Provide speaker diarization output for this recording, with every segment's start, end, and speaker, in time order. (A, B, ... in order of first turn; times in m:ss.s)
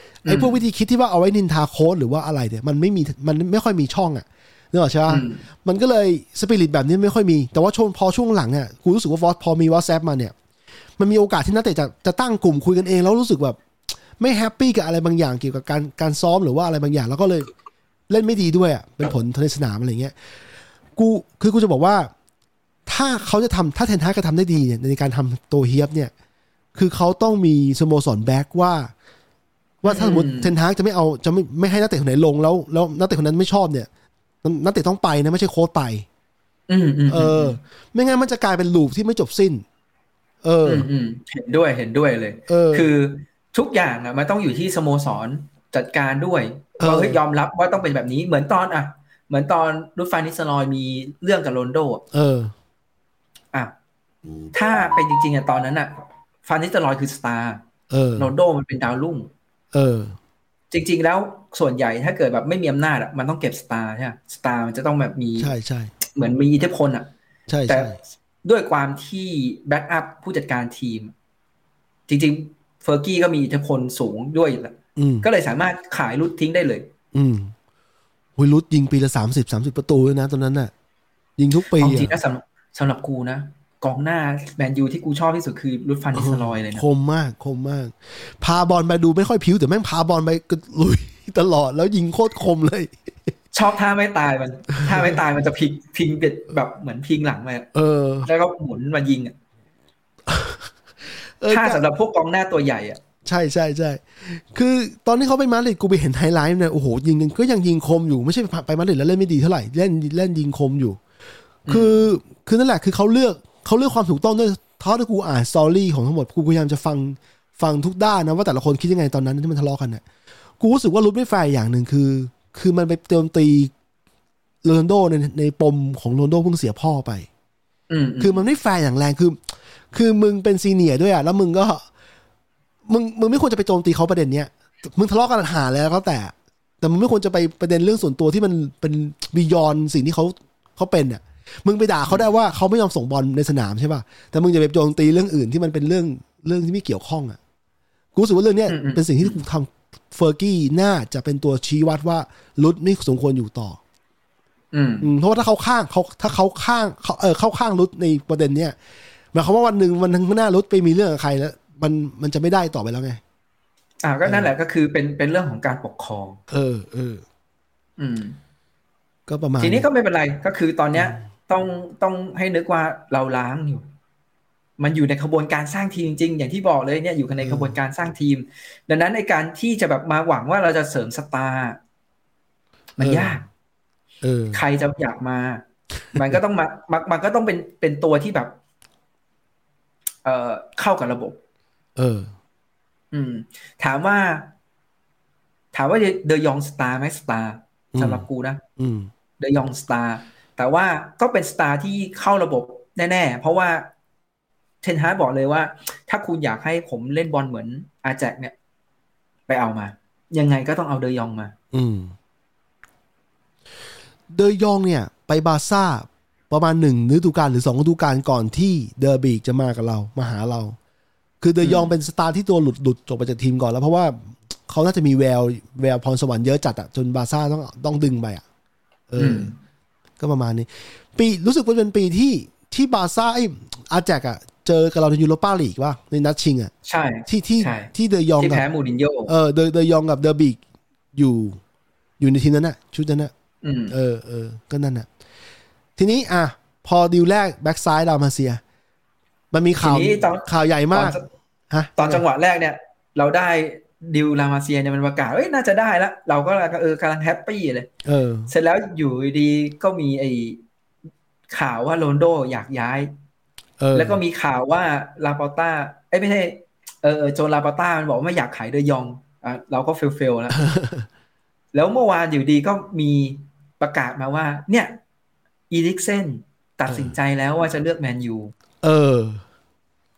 0:00.2-0:00.6 A
0:00.3-0:10.4 B
0:05.1-0:05.4 A
0:11.0-0:13.6 B
0:14.2-0:17.5 B
0:18.1-0:20.2 B
0:21.0-0:22.1 B
0:22.9-0:26.1 B
0:26.8-0:28.9 B
0:29.8-0:33.9 B
0:29.8-0:30.5 A
0:34.4-0:36.1 B
0:36.7-0:37.6 A
0:37.1-0:39.6 B
0:40.4-0:40.9 B
0:40.6-0:52.0 A
0:42.5-0:42.9 B
0:46.8-0:47.2 B
0:52.1-0:52.5 B
0:54.5-0:57.6 A
0:57.9-0:58.3 B
0:58.2-0:59.3 A
0:59.7-1:00.2 B
1:00.7-1:07.1 A
1:05.4-1:05.9 B
1:07.5-1:08.0 B
1:07.7-1:11.1 A
1:12.1-1:16.9 A
1:15.0-1:15.3 B
1:17.1-1:17.5 B
1:18.4-1:20.7 B
1:21.4-1:22.2 B
1:21.8-1:26.8 A
1:26.1-1:33.3 B
1:33.5-1:37.7 A
1:37.7-1:38.3 B
1:38.2-1:39.3 A
1:40.3-1:40.7 B
1:41.4-1:41.8 B
1:41.5-1:43.0 A
1:43.2-1:51.0 B
1:51.7-1:52.0 A
1:51.7-2:00.0 B
2:00.6-2:03.7 B
2:04.6-2:07.3 B
2:07.9-2:08.4 A
2:08.2-2:09.4 B
2:09.9-2:11.9 B
2:12.9-2:27.4 B
2:28.1-2:33.8 B
2:28.7-2:29.4 A
2:34.7-2:35.1 A
2:35.0-2:38.8 B
2:39.3-2:43.2 B
2:44.0-2:46.4 A
2:44.2-2:44.5 B
2:46.5-2:47.2 B
2:48.0-2:48.4 A
2:49.3-2:49.9 B
2:49.6-2:53.8 A
2:54.8-3:01.8 A
2:57.4-2:57.8 B
3:03.0-3:03.5 A
3:03.0-3:03.4 B
3:04.2-3:04.6 B
3:04.5-3:08.6 A
3:06.1-3:06.4 B
3:10.2-3:11.4 A
3:12.0-3:12.3 B
3:13.1-3:14.5 A
3:15.7-3:18.6 A
3:17.9-3:18.2 B
3:18.8-3:19.1 B
3:19.4-3:23.9 A
3:24.8-3:28.5 A
3:29.5-3:31.5 A
3:31.7-3:32.2 B
3:34.3-3:40.8 B
3:41.4-3:48.4 B
3:41.6-3:41.9 A
3:49.1-3:49.5 B
3:49.2-3:49.6 A
3:50.2-3:56.7 B
3:56.9-3:59.3 A
3:57.3-3:58.6 B
3:59.3-4:00.6 B
4:01.2-4:01.6 B
4:02.2-4:03.3 B
4:03.6-4:03.9 A
4:03.9-4:05.1 B
4:06.0-4:08.6 B
4:09.5-4:11.2 B
4:09.8-4:11.2 A
4:11.7-4:12.2 B
4:12.0-4:17.9 A
4:18.0-4:18.5 B
4:18.5-4:20.6 A
4:21.5-4:23.1 A
4:23.8-4:24.2 B
4:23.9-4:30.6 A
4:30.6-4:31.1 B
4:31.7-4:35.0 A
4:35.7-4:38.5 A
4:36.9-4:37.1 B
4:38.8-4:39.4 B